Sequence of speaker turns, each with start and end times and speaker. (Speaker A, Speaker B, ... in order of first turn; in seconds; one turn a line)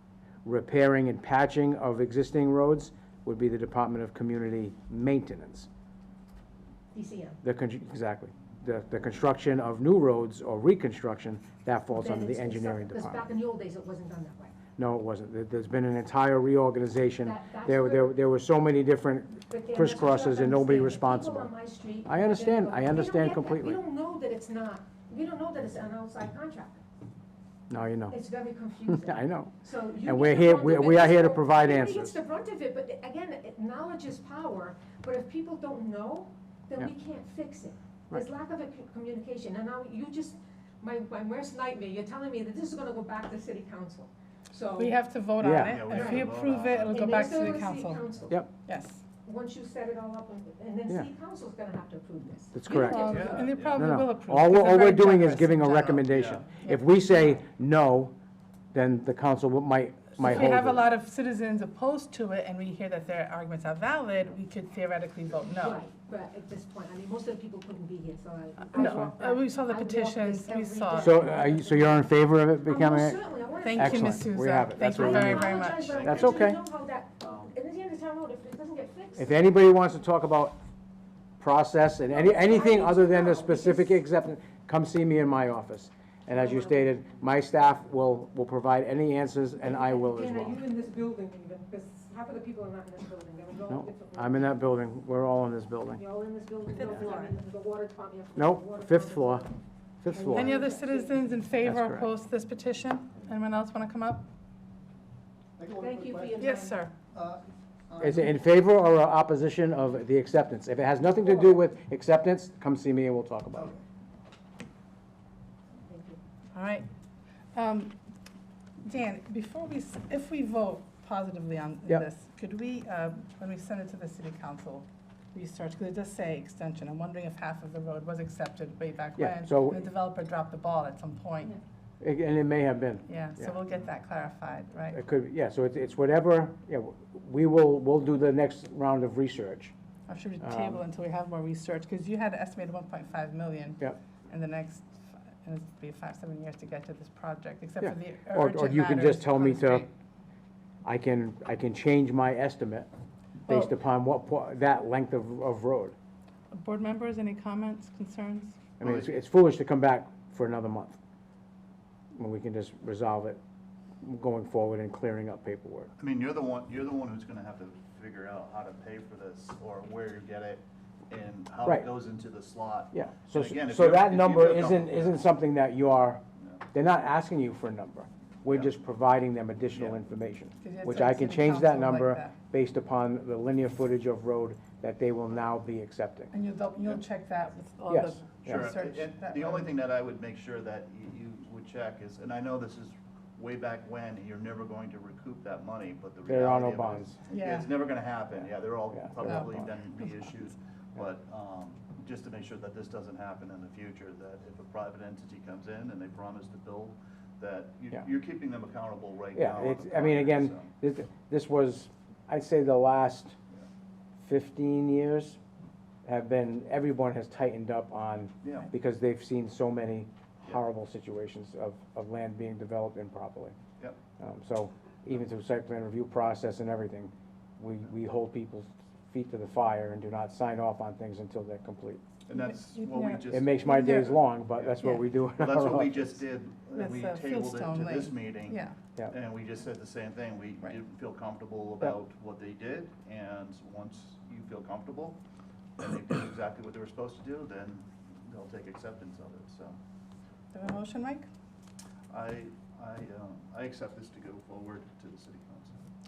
Speaker A: 0.5-5.7
Speaker B: 6.9-7.4
Speaker A: 7.4-13.2
Speaker B: 11.9-14.6
Speaker A: 14.8-21.5
Speaker B: 17.2-18.2
Speaker B: 19.5-26.8
Speaker A: 22.1-23.8
Speaker A: 27.7-28.2
Speaker B: 28.1-45.0
Speaker A: 28.9-32.2
Speaker C: 44.8-48.0
Speaker A: 45.4-45.8
Speaker D: 45.6-47.5
Speaker B: 45.9-46.3
Speaker B: 46.9-48.5
Speaker C: 48.7-49.0
Speaker B: 49.2-53.5
Speaker A: 52.5-58.1
Speaker C: 52.7-56.8
Speaker D: 52.9-53.9
Speaker D: 56.0-56.5
Speaker A: 58.7-60.9
Speaker C: 60.2-65.8
Speaker B: 65.5-74.2
Speaker C: 68.7-71.2
Speaker A: 68.8-69.1
Speaker A: 71.0-76.6
Speaker C: 73.6-76.0
Speaker B: 74.8-79.4
Speaker D: 75.7-76.5
Speaker A: 79.2-80.6
Speaker A: 81.4-90.6
Speaker B: 82.1-84.0
Speaker B: 86.3-86.7
Speaker B: 89.6-94.5
Speaker A: 93.7-96.0
Speaker B: 96.0-99.5
Speaker C: 96.8-97.3
Speaker A: 98.4-99.5
Speaker A: 100.0-100.5
Speaker B: 100.1-101.3
Speaker C: 100.3-104.3
Speaker A: 101.6-102.1
Speaker D: 105.6-106.4
Speaker B: 105.8-106.8
Speaker C: 106.4-106.9
Speaker D: 107.1-108.3
Speaker A: 108.0-113.8
Speaker B: 115.8-116.2
Speaker C: 116.5-116.9
Speaker C: 117.5-117.9
Speaker C: 118.8-131.6
Speaker A: 129.2-129.8
Speaker A: 132.0-133.5
Speaker C: 133.1-135.0
Speaker A: 134.9-139.7
Speaker C: 140.1-149.9
Speaker A: 140.4-140.8
Speaker A: 147.8-149.9
Speaker A: 150.8-152.9
Speaker A: 153.5-155.9
Speaker C: 156.5-158.6
Speaker A: 158.8-161.0
Speaker D: 158.8-159.1
Speaker A: 162.2-163.4
Speaker A: 164.0-165.9
Speaker D: 166.0-175.2
Speaker A: 172.9-176.2
Speaker A: 176.7-186.3
Speaker D: 179.7-180.0
Speaker C: 180.6-182.3
Speaker C: 186.3-189.7
Speaker A: 187.9-188.7
Speaker D: 188.5-210.7
Speaker A: 196.3-197.2
Speaker C: 197.3-197.8
Speaker A: 199.0-199.5
Speaker C: 199.2-199.7
Speaker A: 209.3-213.3
Speaker A: 214.2-215.4
Speaker A: 216.1-223.6
Speaker D: 218.4-218.7
Speaker A: 224.2-232.0
Speaker D: 232.3-245.2
Speaker C: 232.3-234.1
Speaker A: 233.3-236.2
Speaker C: 236.7-238.8
Speaker D: 245.8-249.8
Speaker C: 250.5-251.3
Speaker D: 252.1-255.8